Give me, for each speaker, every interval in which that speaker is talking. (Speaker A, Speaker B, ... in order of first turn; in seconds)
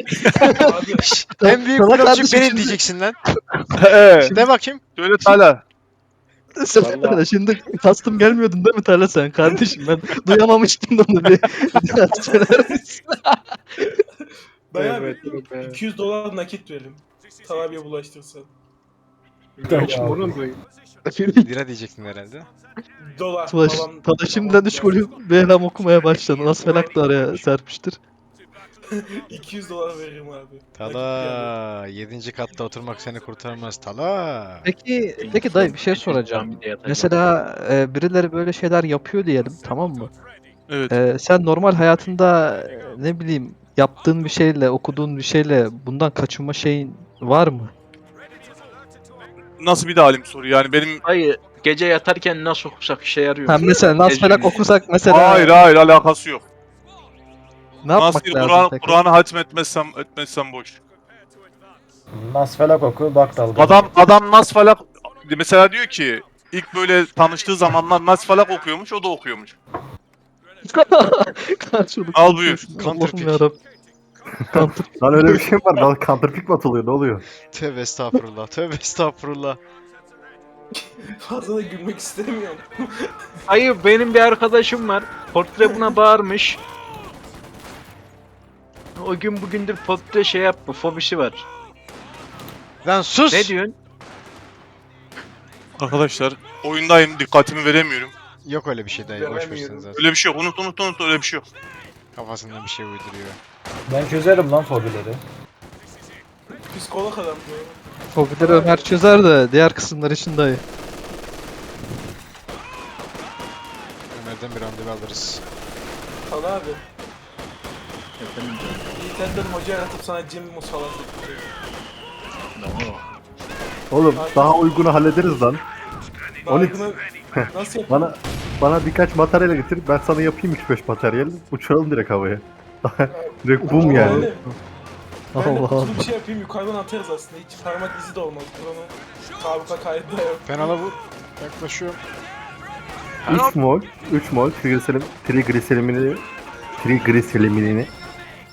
Speaker A: 0.2-0.5, 3.8-4.3, 5.0-5.6, 49.6-51.0, 55.0-56.4, 57.9-60.8, 63.5-69.5, 72.1-72.8, 95.8-98.1, 99.9-101.4
Speaker B: 0.3-2.8, 6.6-13.5, 21.1-21.5, 23.5-28.0, 34.6-40.1, 40.9-47.7, 53.5-55.6, 57.8-59.0, 70.7-73.6, 74.5-75.4, 108.1-110.6, 133.8-134.5, 135.3-136.0
Speaker C: 0.5-1.2, 12.1-12.7, 14.7-18.5, 19.7-20.0, 23.0-25.1, 26.5-27.1, 28.9-31.5, 80.8-83.1, 85.6-85.9, 99.1-100.0, 106.5-107.8, 108.4-108.9, 116.3-116.8, 119.0-121.5, 124.1-124.7, 126.4-128.1, 133.1-134.4, 135.3-140.7
Speaker D: 1.4-3.1, 4.3-4.8, 21.4-22.5, 30.7-34.7, 72.8-73.4, 77.5-79.6, 92.8-93.5, 98.4-100.0, 102.1-103.4, 114.1-115.4, 140.4-142.0
Speaker E: 6.8-7.2, 14.8-15.8, 19.6-20.6, 35.2-37.2, 51.0-54.6, 83.5-86.6, 89.0-91.4, 93.3-93.8, 118.2-118.9, 122.6-123.0, 143.2-143.6
Speaker F: 19.6-20.4, 62.1-63.9, 103.9-105.2
Speaker G: 74.5-77.2, 123.9-125.6, 126.5-134.3, 143.3-146.2, 146.8-147.9